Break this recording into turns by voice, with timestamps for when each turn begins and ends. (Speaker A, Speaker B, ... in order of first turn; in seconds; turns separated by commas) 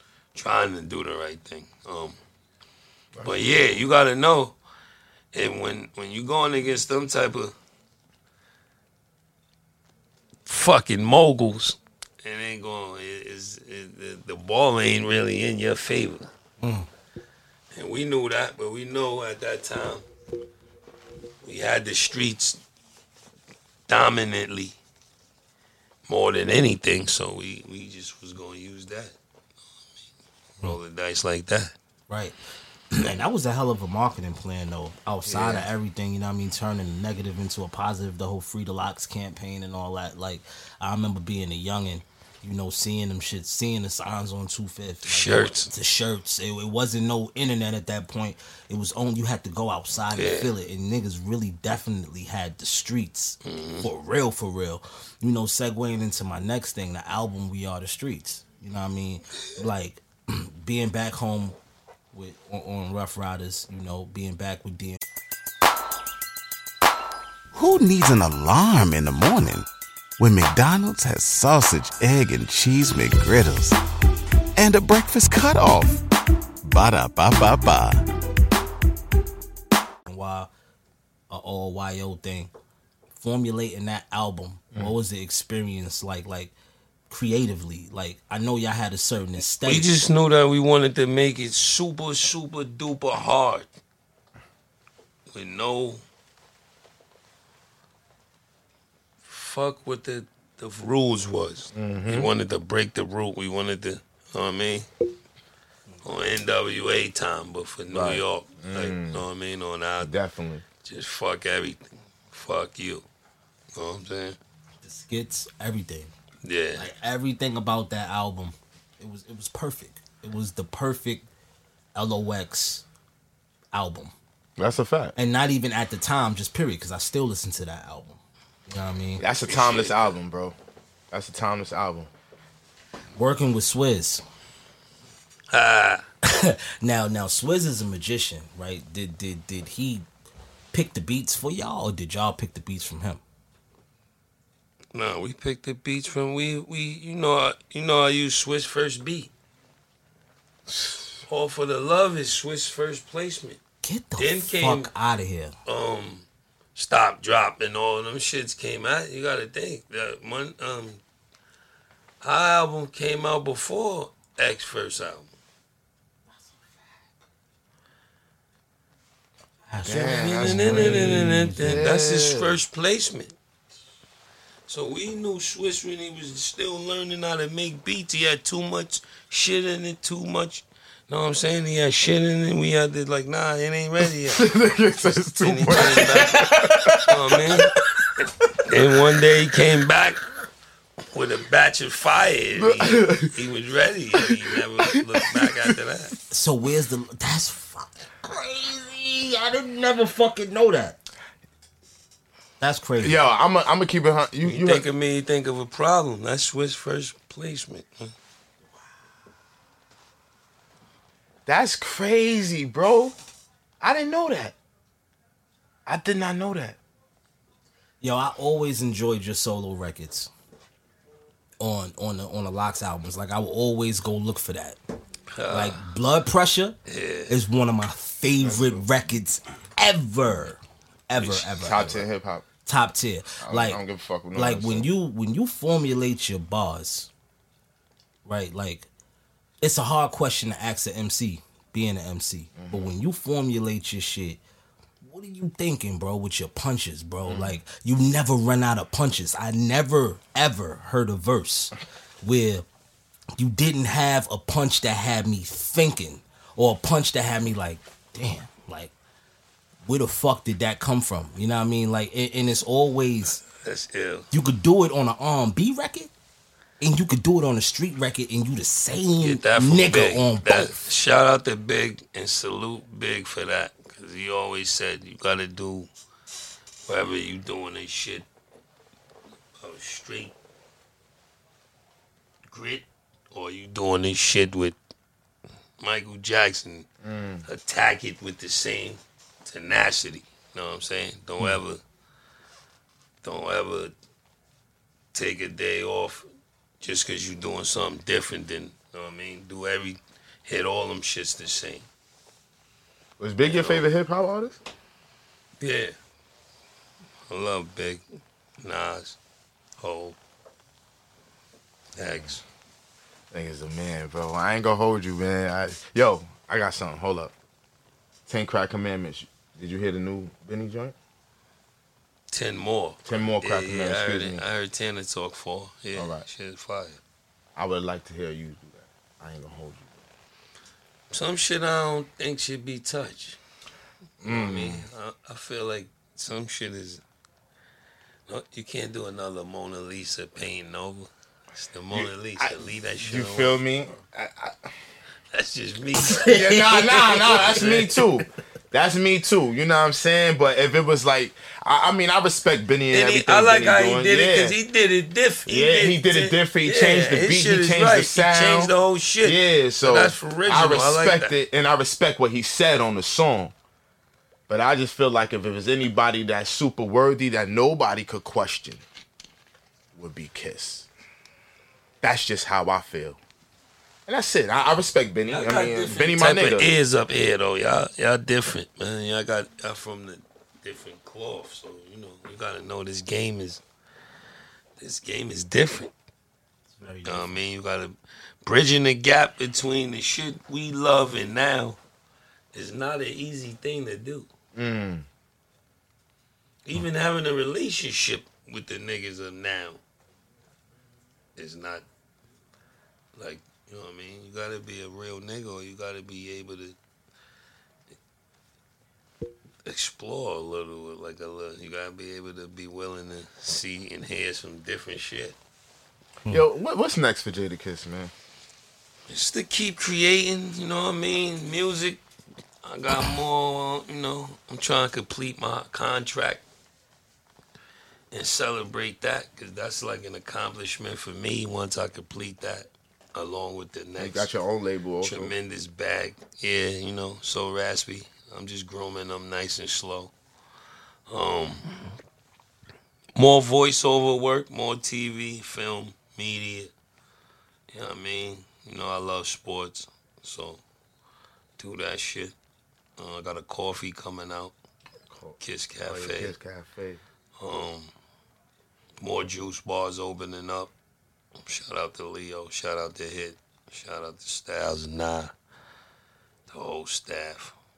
Speaker A: 0.3-2.2, Speaker B: 3.1-3.5, Speaker A: 3.2-4.5, Speaker A: 5.3-7.5, Speaker A: 10.4-16.3, Speaker C: 16.6-16.9, Speaker A: 17.7-20.1, Speaker A: 21.4-22.6, Speaker A: 23.9-24.8, Speaker A: 26.1-29.1, Speaker A: 30.6-31.7, Speaker C: 32.1-32.3, Speaker C: 32.9-61.5, Speaker B: 35.2-35.7, Speaker A: 45.0-45.7, Speaker A: 50.1-50.5, Speaker A: 53.4-53.9, Speaker C: 62.1-65.0, Speaker D: 67.5-69.7, Speaker D: 70.2-73.8, Speaker D: 74.5-76.0, Speaker D: 76.6-78.0, Speaker C: 80.1-80.5, Speaker C: 81.3-82.5, Speaker C: 83.2-86.5, Speaker C: 87.1-89.9, Speaker A: 89.6-93.7, Speaker A: 95.3-96.0, Speaker A: 99.3-104.9, Speaker B: 101.7-102.3, Speaker A: 106.0-110.1, Speaker B: 107.9-109.2, Speaker B: 110.0-110.6, Speaker A: 110.8-113.0, Speaker A: 113.7-114.4, Speaker C: 114.8-116.1, Speaker A: 116.4-116.8, Speaker C: 116.8-121.2, Speaker C: 121.9-122.8, Speaker C: 123.7-124.1, Speaker B: 124.6-125.1, Speaker C: 125.2-129.2, Speaker B: 129.2-130.6, Speaker A: 129.4-130.1, Speaker B: 131.1-132.1, Speaker C: 133.2-134.2, Speaker A: 135.5-136.0, Speaker C: 136.2-140.1, Speaker C: 140.7-143.2, Speaker A: 144.9-149.3, Speaker B: 150.7-151.1, Speaker A: 151.3-153.6, Speaker C: 153.8-155.5, Speaker A: 154.2-154.9, Speaker A: 155.7-161.0, Speaker A: 162.2-165.3, Speaker C: 169.7-171.8, Speaker B: 169.8-172.6, Speaker A: 170.1-173.3, Speaker A: 174.7-184.5, Speaker B: 184.3-187.0, Speaker A: 185.4-186.5, Speaker C: 185.9-187.1, Speaker A: 187.0-187.7, Speaker A: 188.7-190.2, Speaker A: 191.1-196.1, Speaker B: 192.6-193.3, Speaker B: 194.8-195.5, Speaker C: 196.3-201.0, Speaker C: 202.6-203.2, Speaker B: 203.0-204.9, Speaker A: 204.4-208.1, Speaker B: 211.4-213.2, Speaker B: 213.8-214.5, Speaker B: 215.8-216.8, Speaker C: 218.0-220.3, Speaker C: 221.6-224.8, Speaker A: 225.3-225.8, Speaker C: 225.5-226.8, Speaker A: 226.9-227.3, Speaker C: 227.3-232.1, Speaker B: 228.4-228.9, Speaker A: 231.2-231.5, Speaker B: 231.6-232.4, Speaker C: 232.7-233.8, Speaker B: 233.4-234.9, Speaker C: 234.3-237.1, Speaker C: 238.2-238.9, Speaker C: 239.6-244.4, Speaker B: 242.6-242.9, Speaker C: 245.0-252.6, Speaker B: 247.2-247.6, Speaker C: 253.4-258.9, Speaker C: 259.9-263.4, Speaker A: 263.6-264.3, Speaker C: 264.3-266.1, Speaker C: 266.8-270.7, Speaker A: 269.2-275.9, Speaker A: 276.9-278.2, Speaker A: 279.6-280.3, Speaker A: 282.5-284.8, Speaker A: 285.8-286.9, Speaker B: 287.0-287.4, Speaker A: 287.4-291.8, Speaker A: 293.2-293.9, Speaker A: 295.1-296.2, Speaker A: 296.8-301.9, Speaker B: 303.2-304.6, Speaker A: 303.4-303.9, Speaker A: 305.6-305.9, Speaker A: 307.3-308.0, Speaker A: 308.6-309.2, Speaker A: 309.8-310.2, Speaker A: 311.9-312.4, Speaker B: 313.3-317.3, Speaker B: 318.3-320.9, Speaker A: 322.3-327.0, Speaker B: 323.1-324.4, Speaker B: 325.9-326.2, Speaker B: 327.6-329.9, Speaker A: 331.1-333.4, Speaker B: 334.2-334.8, Speaker A: 334.2-337.0, Speaker A: 338.3-343.5, Speaker B: 341.9-344.7, Speaker A: 345.3-346.3, Speaker C: 346.0-348.0, Speaker B: 346.2-354.6, Speaker A: 347.5-347.8, Speaker A: 352.9-361.3, Speaker B: 355.4-358.7, Speaker B: 359.2-363.5, Speaker B: 364.5-368.8, Speaker B: 369.9-370.9, Speaker B: 372.0-373.2, Speaker B: 374.1-376.7, Speaker A: 375.3-383.6, Speaker A: 384.8-385.9, Speaker C: 386.7-387.4, Speaker A: 387.1-391.8, Speaker A: 392.5-394.3, Speaker B: 394.5-395.1, Speaker A: 396.6-399.8, Speaker A: 401.4-401.8, Speaker A: 403.1-406.8, Speaker A: 409.6-415.4, Speaker B: 416.3-418.1, Speaker A: 419.1-422.0, Speaker A: 422.6-426.4, Speaker A: 428.1-434.3, Speaker B: 434.0-435.3, Speaker A: 435.0-440.1, Speaker A: 441.1-441.8, Speaker A: 443.1-446.7, Speaker A: 447.7-450.6, Speaker A: 451.6-452.3, Speaker A: 453.0-454.5, Speaker B: 455.1-457.0, Speaker A: 455.4-456.3, Speaker A: 457.4-457.9, Speaker A: 459.0-460.7, Speaker A: 461.4-465.3, Speaker A: 466.5-467.5